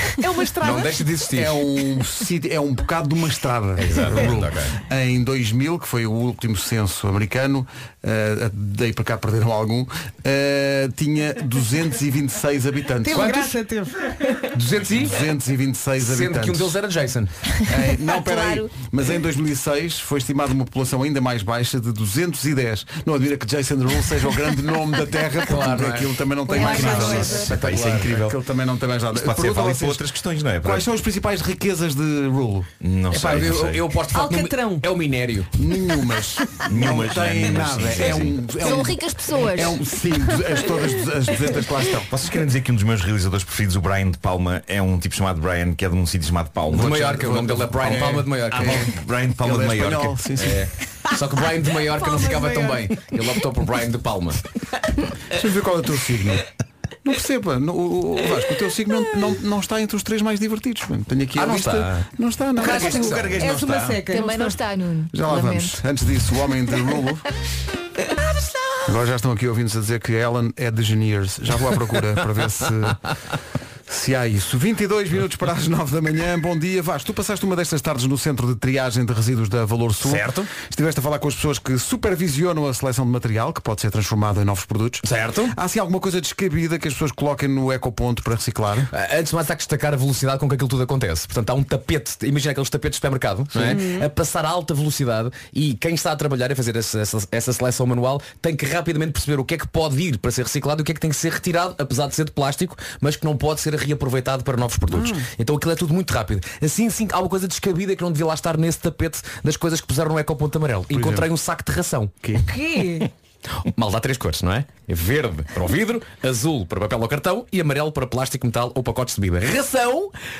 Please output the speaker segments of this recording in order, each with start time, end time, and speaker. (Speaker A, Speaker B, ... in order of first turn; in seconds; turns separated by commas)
Speaker A: 0.2-1.1, Speaker B: 0.6-1.6, Speaker C: 1.3-13.4, Speaker B: 3.8-4.8, Speaker A: 13.0-14.5, Speaker B: 13.1-13.5, Speaker B: 14.5-15.2, Speaker C: 15.0-16.7, Speaker B: 16.0-17.3, Speaker C: 17.7-30.0, Speaker B: 25.4-28.1, Speaker A: 26.5-27.4, Speaker D: 26.6-27.4, Speaker E: 26.9-28.4, Speaker E: 29.1-30.9, Speaker C: 30.6-32.7, Speaker E: 32.8-33.9, Speaker B: 33.1-35.5, Speaker A: 34.1-34.9, Speaker C: 35.5-42.1, Speaker E: 36.7-38.5, Speaker D: 38.5-39.8, Speaker E: 42.1-46.9, Speaker B: 46.7-48.9, Speaker C: 46.7-50.6, Speaker E: 48.5-50.2, Speaker B: 50.4-54.4, Speaker A: 51.9-53.1, Speaker C: 55.3-56.5, Speaker C: 57.0-63.1, Speaker B: 61.4-62.0, Speaker B: 62.6-63.5, Speaker E: 62.6-64.0, Speaker A: 63.4-64.6, Speaker D: 64.0-65.8, Speaker C: 65.1-67.2, Speaker C: 68.8-73.0, Speaker C: 73.9-88.9, Speaker B: 80.0-80.5, Speaker B: 85.0-85.5, Speaker B: 88.9-112.1, Speaker C: 93.5-93.8, Speaker A: 93.6-94.1, Speaker C: 110.9-111.3, Speaker A: 112.4-113.1, Speaker B: 113.5-120.1